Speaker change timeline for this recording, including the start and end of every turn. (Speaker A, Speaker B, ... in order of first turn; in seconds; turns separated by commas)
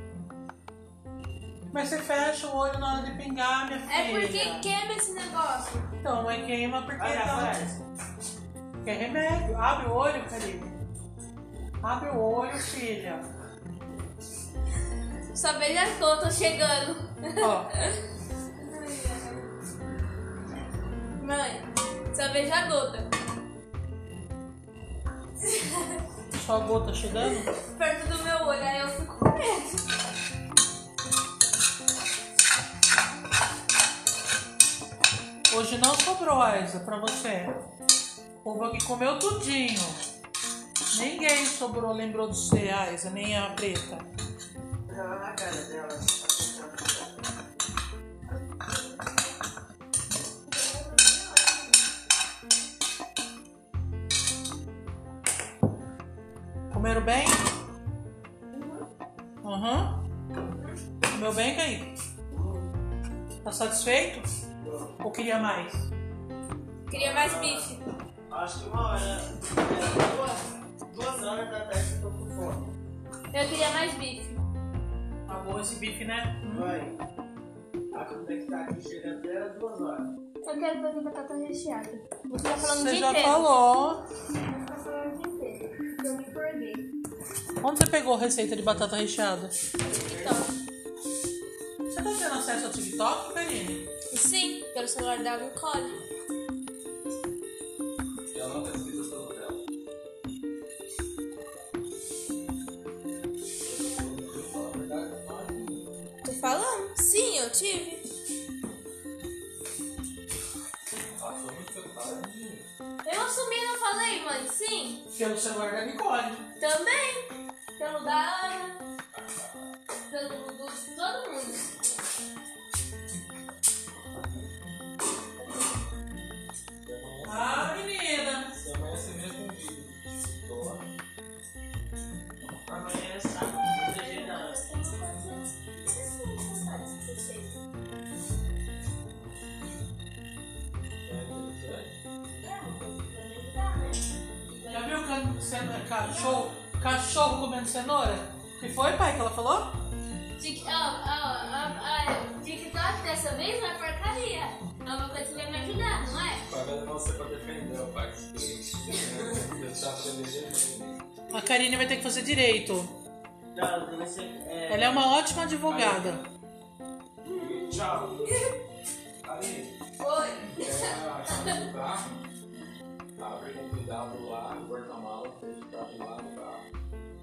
Speaker A: 1.7-4.5, Speaker B: 3.9-5.9, Speaker C: 4.4-4.6, Speaker A: 6.0-7.6, Speaker C: 7.0-7.8, Speaker A: 8.8-10.8, Speaker A: 11.8-13.2, Speaker B: 15.3-18.0, Speaker A: 17.4-17.7, Speaker B: 18.6-19.5, Speaker B: 21.2-23.1, Speaker B: 25.4-26.0, Speaker A: 26.3-27.5, Speaker B: 27.2-29.9, Speaker A: 35.5-37.5, Speaker A: 38.4-40.0, Speaker A: 40.9-44.0, Speaker C: 44.9-47.2, Speaker B: 48.6-49.1, Speaker B: 50.5-51.8, Speaker A: 56.7-57.4, Speaker B: 58.5-58.8, Speaker A: 59.4-60.0, Speaker A: 61.1-61.9, Speaker C: 62.3-62.7, Speaker A: 63.4-64.2, Speaker C: 64.6-64.9, Speaker A: 65.0-65.9, Speaker B: 66.9-67.8, Speaker C: 66.9-67.7, Speaker C: 68.3-72.7, Speaker B: 73.3-74.4, Speaker A: 75.3-76.7, Speaker C: 76.5-77.0, Speaker C: 77.9-80.1, Speaker B: 80.4-83.5, Speaker A: 82.6-84.0, Speaker B: 84.5-86.9, Speaker A: 87.6-89.5, Speaker B: 89.8-90.5, Speaker C: 89.8-90.4, Speaker A: 91.9-93.9, Speaker B: 94.1-96.0, Speaker D: 98.3-99.6, Speaker D: 103.6-105.9, Speaker B: 106.2-108.0, Speaker D: 111.2-112.7, Speaker B: 113.0-115.0, Speaker A: 115.1-116.5, Speaker B: 116.6-118.8, Speaker D: 119.1-119.6, Speaker B: 120.1-121.7, Speaker B: 125.5-125.7, Speaker D: 126.8-127.7, Speaker A: 127.3-128.5, Speaker D: 128.5-130.9, Speaker C: 132.7-134.6, Speaker B: 133.8-137.5, Speaker D: 141.1-141.9, Speaker B: 142.4-145.0, Speaker A: 144.7-149.8, Speaker B: 146.0-146.5, Speaker B: 150.4-156.5, Speaker D: 156.5-161.0, Speaker A: 161.3-162.9, Speaker C: 163.5-165.1, Speaker A: 164.7-166.2, Speaker C: 165.7-166.2, Speaker B: 167.3-168.5, Speaker D: 167.3-168.3, Speaker C: 167.8-168.2, Speaker D: 169.2-169.8, Speaker B: 170.0-171.6, Speaker D: 170.6-172.2, Speaker D: 173.2-176.6